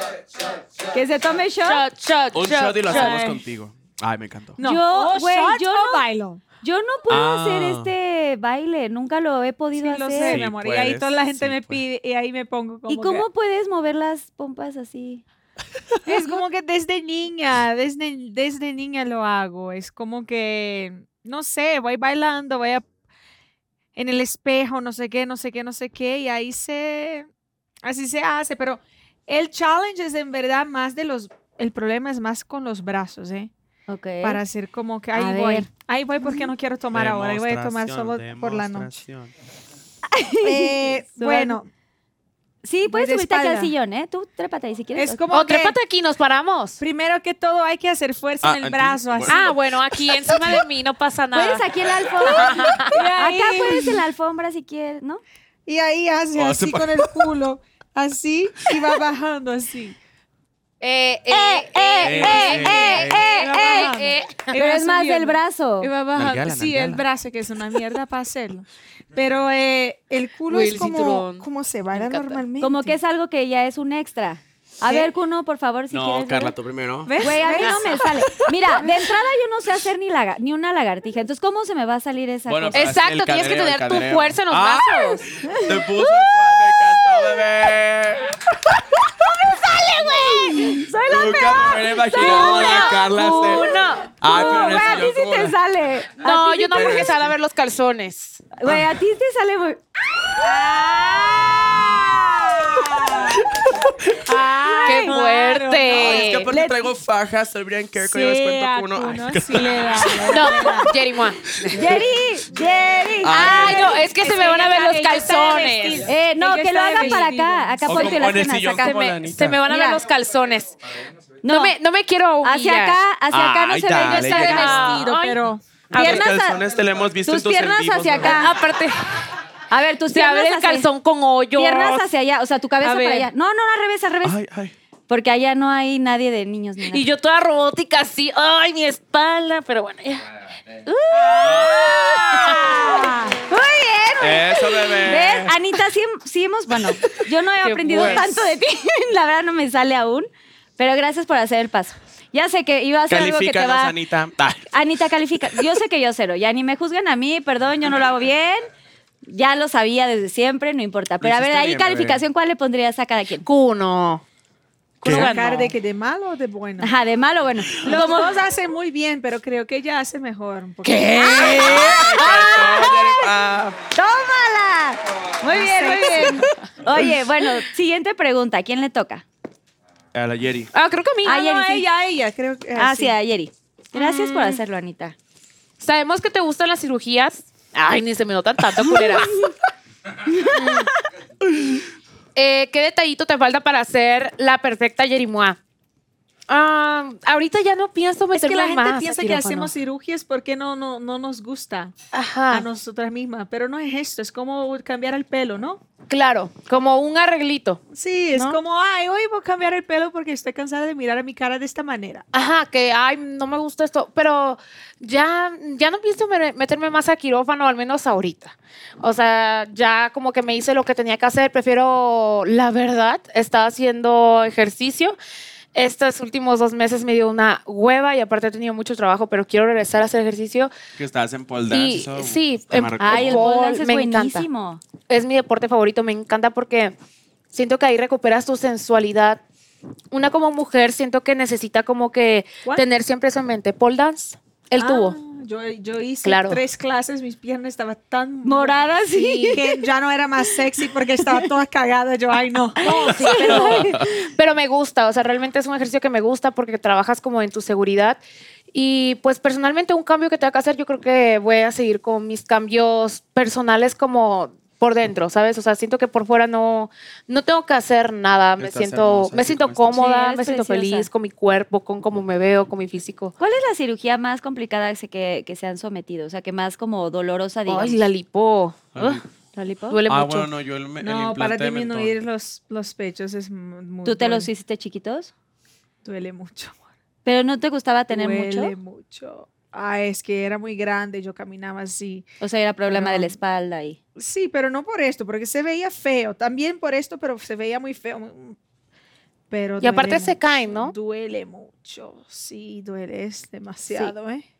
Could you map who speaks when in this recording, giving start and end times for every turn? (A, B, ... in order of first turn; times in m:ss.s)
0:00.9-0:01.8 A
0:01.6-0:03.2 B
0:02.3-0:04.6 C
0:02.9-0:03.4 D
0:04.6-0:06.4 D
0:04.6-0:06.0 A
0:06.6-0:10.4 A
0:07.1-0:07.9 C
0:09.8-0:13.2 D
0:10.2-0:11.8 C
0:12.9-0:15.2 A
0:16.0-0:22.8 D
0:24.0-0:27.3 D
0:27.8-0:33.5 D
0:33.9-0:34.4 A
0:34.2-0:38.9 D
0:35.1-0:35.7 A
0:36.9-0:39.3 C
0:40.1-0:41.6 A
0:40.4-0:41.7 D
0:42.6-0:45.2 A
0:42.8-0:43.7 D
0:45.0-0:45.8 D
0:45.3-0:46.8 B
0:46.8-0:49.5 D
0:48.4-0:50.6 C
0:49.3-0:51.6 B
0:51.3-0:55.2 A
0:52.2-0:52.9 B
0:52.2-0:54.0 D
0:55.6-1:00.0 D
0:56.3-0:57.3 C
1:00.8-1:04.5 B
1:01.3-1:03.9 A
1:02.0-1:03.3 C
1:02.6-1:13.0 D
1:04.5-1:05.9 A
1:06.1-1:07.0 C
1:10.5-1:12.4 B
1:12.6-1:16.5 A
1:14.8-1:15.1 D
1:15.9-1:17.3 C
1:17.0-1:18.0 D
1:17.2-1:22.9 A
1:22.5-1:29.5 C
1:22.7-1:25.2 B
1:30.0-1:37.0 A
1:30.2-1:30.6 B
1:31.0-1:33.6 C
1:32.2-1:34.1 B
1:34.2-1:35.6 C
1:36.2-1:38.5 B
1:36.7-1:37.3 C
1:38.6-1:39.8 A
1:38.6-1:38.9 C
1:40.4-1:43.4 D
1:41.4-1:43.0 A
1:43.4-1:44.3 C
1:44.2-1:46.3 D
1:44.6-1:45.1 A
1:44.8-1:46.5 B
1:45.9-1:50.4 C
1:46.4-1:46.9 A
1:48.0-1:50.9 D
1:50.3-1:51.4 B
1:50.4-1:50.8 A
1:51.5-1:52.0 C
1:51.7-1:54.0 A
1:53.2-1:53.9 C
1:53.3-1:56.1 B
1:53.4-1:58.1 D
1:56.0-1:59.0 A
1:57.8-1:59.6 C
1:58.5-2:00.7 B
1:59.6-2:00.0 A
2:01.4-2:01.7 A
2:01.5-2:03.0 B
2:02.4-2:04.9 A
2:03.3-2:05.0 C
2:04.0-2:06.3 B
2:04.2-2:05.6 D
2:05.9-2:06.6 A
2:05.9-2:08.5 C
2:07.2-2:08.5 A
2:08.2-2:09.2 B
2:09.7-2:10.9 A
2:10.1-2:12.1 B
2:11.6-2:14.4 A
2:12.8-2:13.3 B
2:14.2-2:14.7 C
2:15.1-2:17.0 A
2:16.8-2:20.2 B
2:20.8-2:33.9 A
2:21.2-2:23.1 B
2:21.4-2:22.0 C
2:22.6-2:23.4 D
2:24.2-2:25.7 C
2:27.6-2:28.3 B
2:33.1-2:34.7 C
2:34.7-2:38.7 A
2:39.2-2:43.4 A
2:41.2-2:42.2 C
2:43.4-2:44.2 B
2:45.0-2:45.7 B
2:45.0-2:45.4 C
2:45.0-2:46.9 D
2:46.8-2:48.3 A
2:47.8-2:51.8 D
2:47.9-2:48.3 B
2:50.8-2:53.0 B
2:51.4-2:53.3 A
2:51.4-2:53.8 C
2:53.9-2:59.2 A
2:55.5-2:56.4 D
3:00.1-3:00.7 C
3:00.7-3:01.4 B
3:01.2-3:01.8 A
3:01.2-3:03.1 D
3:02.8-3:05.2 A
3:03.9-3:04.6 B
3:05.8-3:09.4 B
3:10.3-3:10.6 A
3:10.4-3:10.9 B
3:12.3-3:15.6 B
3:16.5-3:19.7 B
3:18.3-3:21.9 D
3:22.1-3:22.7 B
3:22.5-3:25.8 D
3:26.1-3:27.8 B
3:27.9-3:32.2 D
3:28.3-3:28.6 B
3:32.3-3:45.2 B
3:45.7-3:50.7 B
3:51.0-3:53.4 C
3:51.7-3:54.5 B
3:53.0-3:54.8 A
3:55.1-3:56.9 B
3:57.5-3:59.4 B
4:00.1-4:05.2 B
4:04.8-4:08.8 D
4:06.2-4:06.6 B
4:08.4-4:09.6 A
4:09.2-4:09.6 B
4:09.5-4:13.7 D
4:12.8-4:14.2 A
4:12.8-4:18.2 B
4:18.7-4:33.3 B
4:28.6-4:30.0 C
4:29.9-4:31.1 A
4:33.4-4:38.0 A
4:37.7-4:39.2 B
4:38.9-4:39.2 C
4:39.5-4:40.0 A
4:39.9-4:40.5 B
4:40.1-4:42.2 C
4:41.0-4:44.5 D
4:44.0-4:45.3 A
4:46.0-4:46.8 D
4:47.2-4:48.7 A
4:48.1-4:52.3 D
4:52.4-4:54.0 A
4:52.9-4:53.4 D
4:54.2-4:58.6 D
4:59.5-5:04.4 D
4:59.8-5:00.9 B